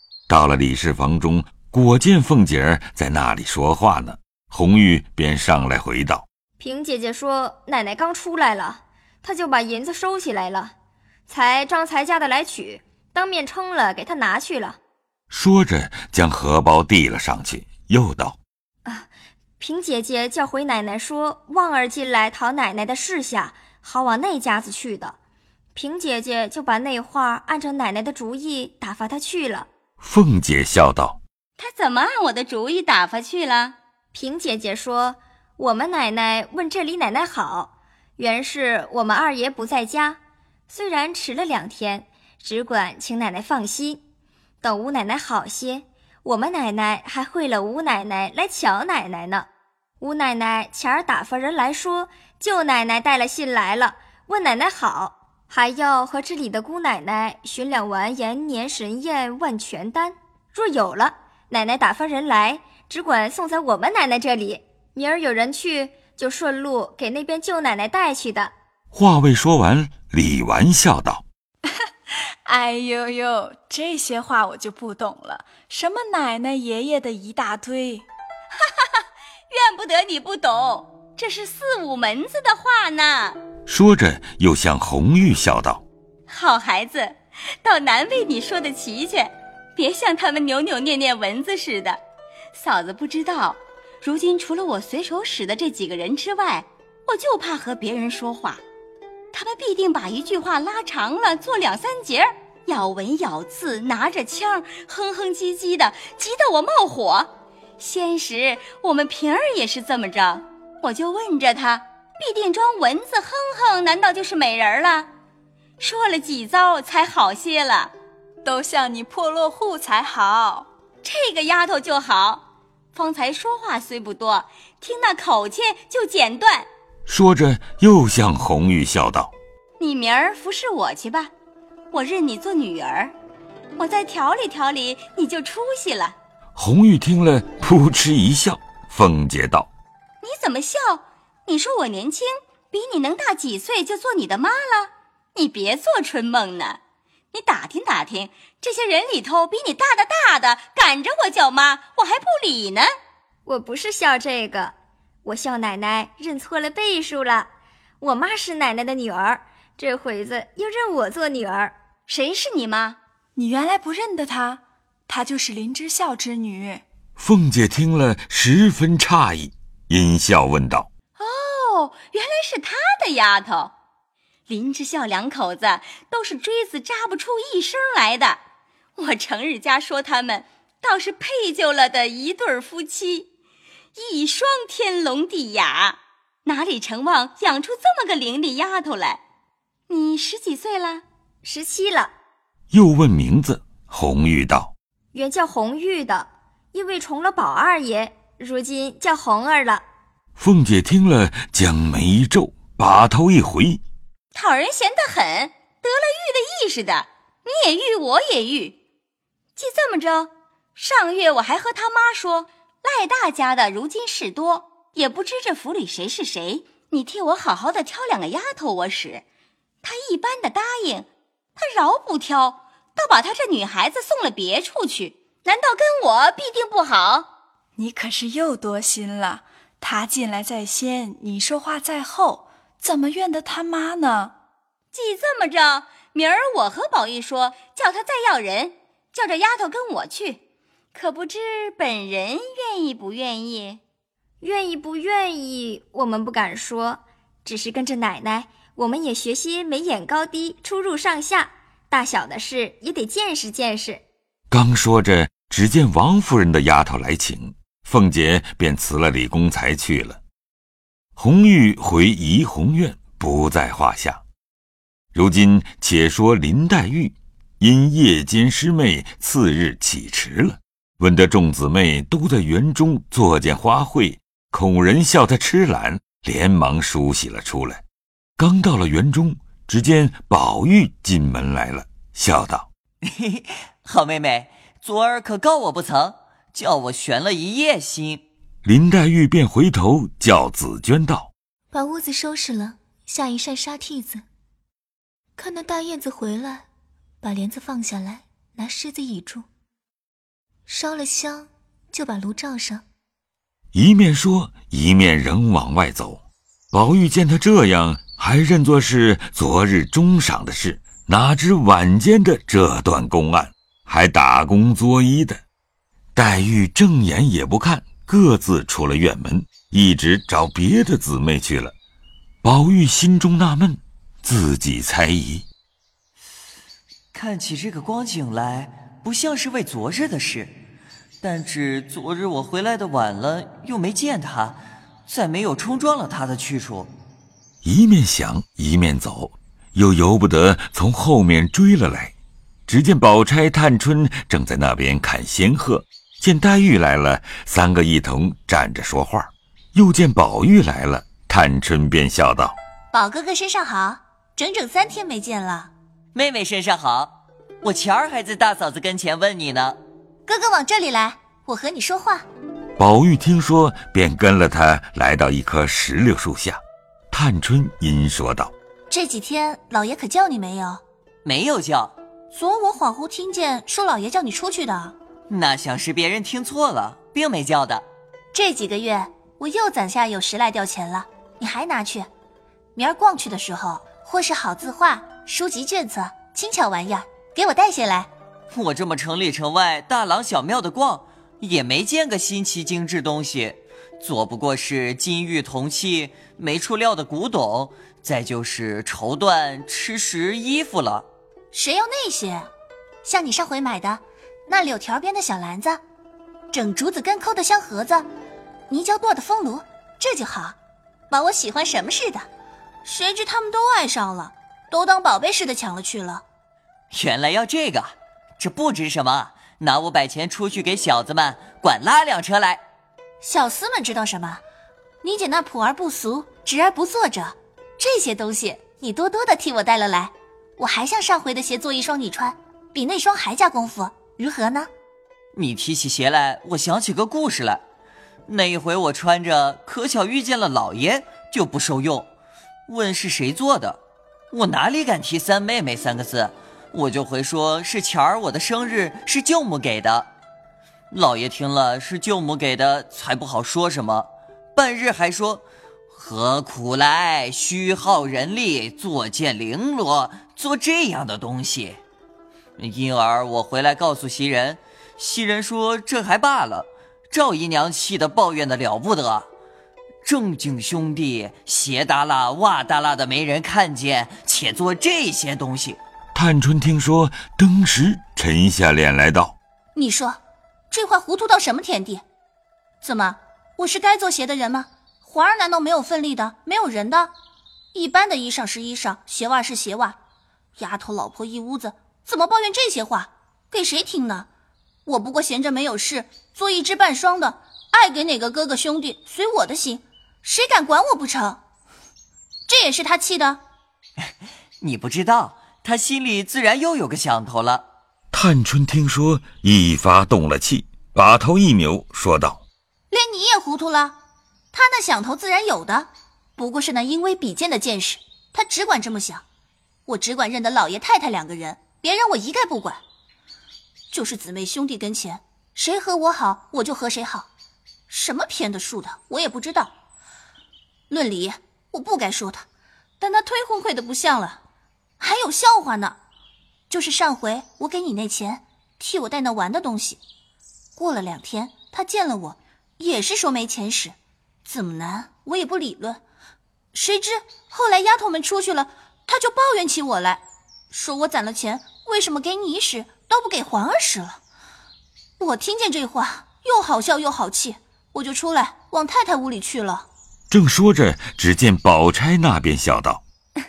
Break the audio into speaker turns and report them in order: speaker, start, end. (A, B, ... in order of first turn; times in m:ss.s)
0:00.3-0:06.2 A
0:06.6-0:10.7 B
0:11.3-0:14.8 B
0:15.3-0:18.4 A
0:18.8-0:25.2 B
0:25.7-0:29.7 B
0:30.0-0:31.2 A
0:31.6-0:33.8 C
0:34.1-0:44.0 B
0:44.6-0:49.5 B
0:50.0-1:08.5 B
1:08.9-1:11.2 A
1:12.4-1:18.0 D
1:19.5-1:23.4 C
1:23.6-1:25.8 A
1:26.3-1:32.0 C
1:32.5-1:38.6 C
1:39.3-1:55.1 C
1:55.8-1:57.9 C
1:58.4-2:00.7 D
2:01.0-2:02.4 C
2:02.9-2:06.7 C
2:07.1-2:09.3 A
2:09.8-2:11.3 C
2:11.9-2:13.1 C
2:13.8-2:16.1 C
2:16.6-2:19.7 A
2:20.2-2:26.8 C
2:27.3-2:32.9 C
2:33.4-2:41.7 B
2:42.1-2:43.0 C
2:43.4-2:46.8 D
2:47.2-2:50.9 A
2:51.2-2:53.7 C
2:54.5-2:58.4 C
2:59.0-3:03.3 C
3:03.9-3:09.2 C
3:09.9-3:11.0 C
3:11.4-3:12.1 B
3:12.7-3:14.7 A
3:15.1-3:19.8 B
3:20.4-3:23.8 A
3:24.3-3:28.8 C
3:29.6-3:39.2 C
3:39.8-3:47.3 C
3:47.8-3:54.3 D
3:54.9-4:00.4 C
4:00.9-4:03.8 C
4:04.4-4:14.0 B
4:14.5-4:20.2 A
4:21.2-4:24.2 A
4:25.1-4:37.8 A
4:38.4-4:42.7 A
4:43.1-4:48.2 E
4:48.6-4:51.3 A
4:51.7-4:54.2 F
4:55.4-4:56.6 F
4:57.2-4:59.4 F
5:00.7-5:02.8 F
5:03.7-5:15.4 A
5:16.1-5:21.7 A
5:22.4-5:25.4 A
5:27.1-5:30.6 E
5:31.2-5:36.9 E
5:37.6-5:42.1 A
5:42.7-5:52.6 A
5:52.9-5:55.7 G
5:56.1-5:59.8 E
6:00.2-6:02.2 G
6:02.8-6:06.6 A
6:07.1-6:08.5 A
6:08.9-6:10.8 G
6:11.2-6:11.9 E
6:12.3-6:15.0 G
6:15.3-6:17.8 E
6:18.3-6:22.1 G
6:22.8-6:28.1 G
6:28.5-6:41.1 E
6:41.5-6:42.5 G
6:43.0-6:45.8 G
6:46.5-6:48.1 G
6:48.7-6:50.6 G
6:51.1-6:52.2 G
6:52.8-6:56.2 G
6:56.9-7:02.6 E
7:03.2-7:04.4 G
7:05.0-7:14.7 G
7:15.3-7:17.6 E
7:18.3-7:22.1 E
7:22.7-7:23.8 E
7:24.3-7:30.1 E
7:30.9-7:41.8 E
7:42.6-7:49.3 E
7:50.0-7:55.8 E
7:56.1-7:59.4 A
7:59.7-8:00.2 G
8:00.7-8:02.0 G
8:02.8-8:07.1 G
8:07.7-8:10.0 G
8:10.6-8:14.3 G
8:14.8-8:21.4 G
8:22.5-8:23.4 G
8:24.6-8:27.7 E
8:28.1-8:32.4 A
8:32.9-8:34.0 G
8:34.5-8:39.2 G
8:39.8-8:42.8 G
8:43.9-8:47.3 G
8:47.9-8:49.7 G
8:50.9-8:52.4 G
8:53.0-8:54.4 G
8:55.0-8:56.0 G
8:56.7-9:00.0 G
9:00.8-9:06.0 G
9:06.7-9:14.2 G
9:15.2-9:19.9 G
9:20.3-9:23.0 A